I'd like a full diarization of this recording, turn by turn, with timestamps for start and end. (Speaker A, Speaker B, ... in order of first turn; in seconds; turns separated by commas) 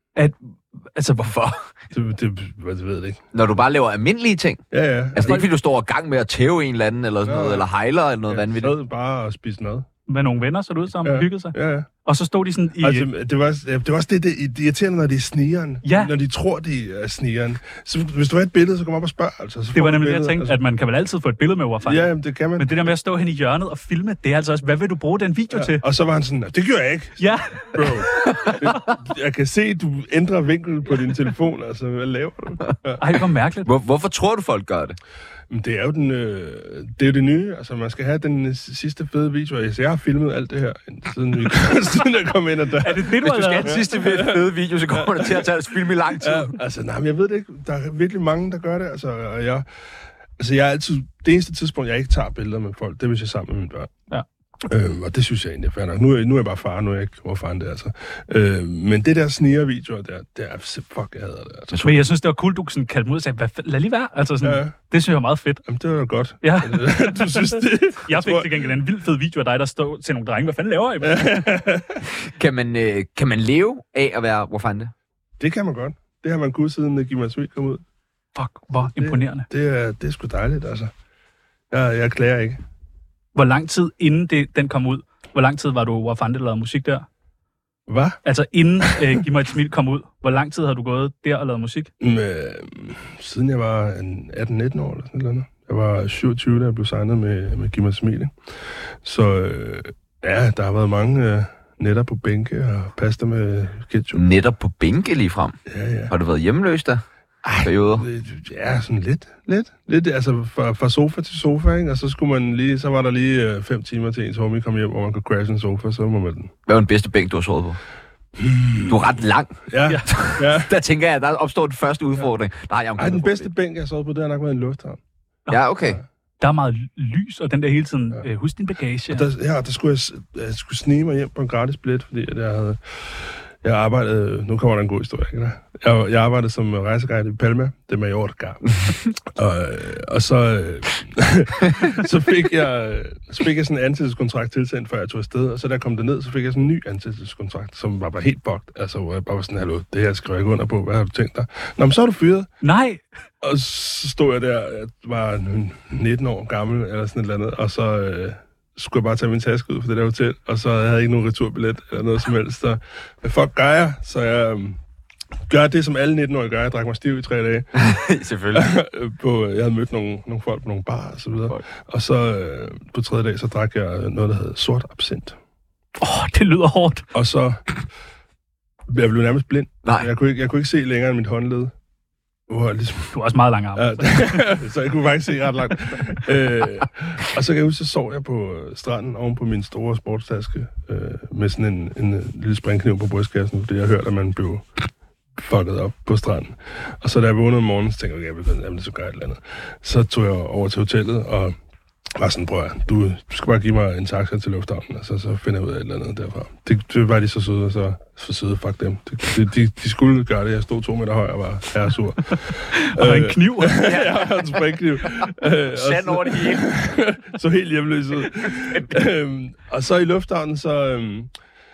Speaker A: 0.1-1.3, Speaker B: 1.2-1.6, Speaker C: 1.9-3.2, Speaker B: 3.3-4.6, Speaker C: 4.7-5.5, Speaker B: 5.1-8.8, Speaker C: 7.2-7.7, Speaker C: 8.3-9.8, Speaker A: 10.1-13.1, Speaker C: 11.0-11.9, Speaker C: 12.8-20.6, Speaker A: 15.8-16.1, Speaker A: 19.7-25.8, Speaker C: 21.9-22.8, Speaker C: 25.5-33.0, Speaker A: 27.2-28.7, Speaker B: 28.5-28.7, Speaker A: 33.0-33.7, Speaker B: 33.6-35.0, Speaker C: 35.5-45.5, Speaker A: 42.8-43.9, Speaker B: 43.2-46.5, Speaker C: 46.1-49.6, Speaker C: 50.4-53.9, Speaker C: 54.7-61.7, Speaker B: 61.7-62.0, Speaker A: 61.8-65.6, Speaker C: 64.4-64.7, Speaker C: 65.6-68.6, Speaker A: 66.4-71.5, Speaker C: 71.0-72.0, Speaker B: 72.2-74.9, Speaker C: 75.4-77.8, Speaker A: 78.3-79.5, Speaker C: 78.7-80.9, Speaker C: 81.7-82.6, Speaker A: 83.3-87.0, Speaker C: 87.9-88.2, Speaker A: 88.2-91.9, Speaker C: 92.0-98.3, Speaker C: 99.0-104.2, Speaker B: 104.1-105.6, Speaker C: 105.7-106.1, Speaker B: 106.1-108.1, Speaker C: 107.4-116.5, Speaker B: 116.7-117.8, Speaker C: 118.4-119.0, Speaker B: 118.8-123.5, Speaker C: 119.7-120.7, Speaker C: 123.0-125.0, Speaker B: 125.5-126.0, Speaker A: 126.4-129.2, Speaker C: 129.1-152.5, Speaker A: 152.6-153.0, Speaker C: 153.4-164.8, Speaker C: 165.5-167.7, Speaker B: 167.8-168.7, Speaker C: 168.5-175.3, Speaker A: 176.0-177.1, Speaker C: 177.1-177.6, Speaker C: 178.9-181.7, Speaker B: 179.8-180.1, Speaker C: 182.5-183.2, Speaker A: 183.1-184.3, Speaker C: 183.7-194.8, Speaker C: 195.4-201.6, Speaker C: 202.2-221.3, Speaker A: 212.5-213.9, Speaker B: 213.8-216.7, Speaker B: 218.4-219.0